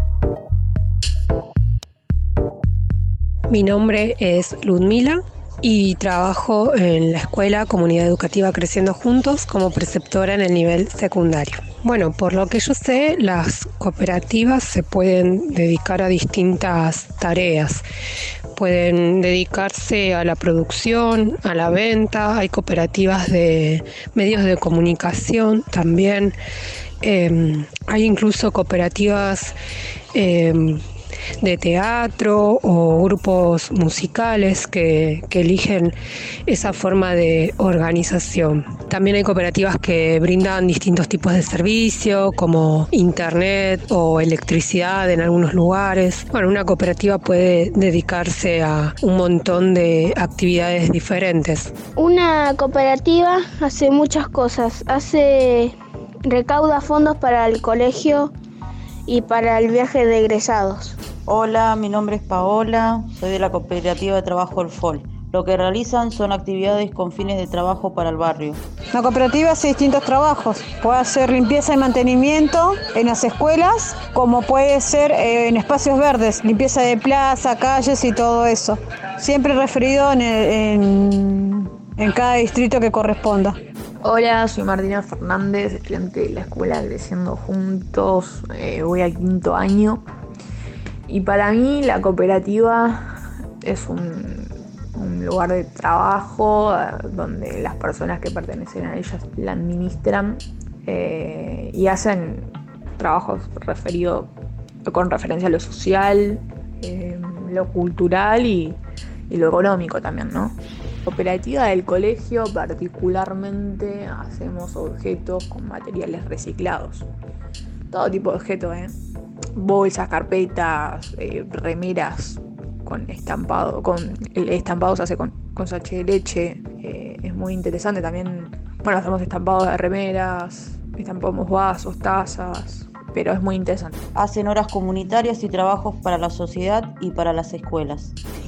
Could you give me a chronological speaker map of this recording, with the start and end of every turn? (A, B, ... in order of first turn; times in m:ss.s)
0:03.5-0:17.8 A
0:18.6-0:26.4 A
0:27.0-0:29.6 A
0:30.1-0:30.9 A
0:31.4-0:51.7 A
0:52.0-0:58.3 B
0:59.1-1:01.0 B
1:01.3-1:08.6 C
1:08.9-1:23.6 D
1:24.0-1:30.0 E
1:31.1-1:33.1 E
1:33.6-1:44.3 E
1:44.8-1:57.1 E
1:57.9-1:59.0 E
1:59.6-2:14.0 E
2:14.2-2:18.2 C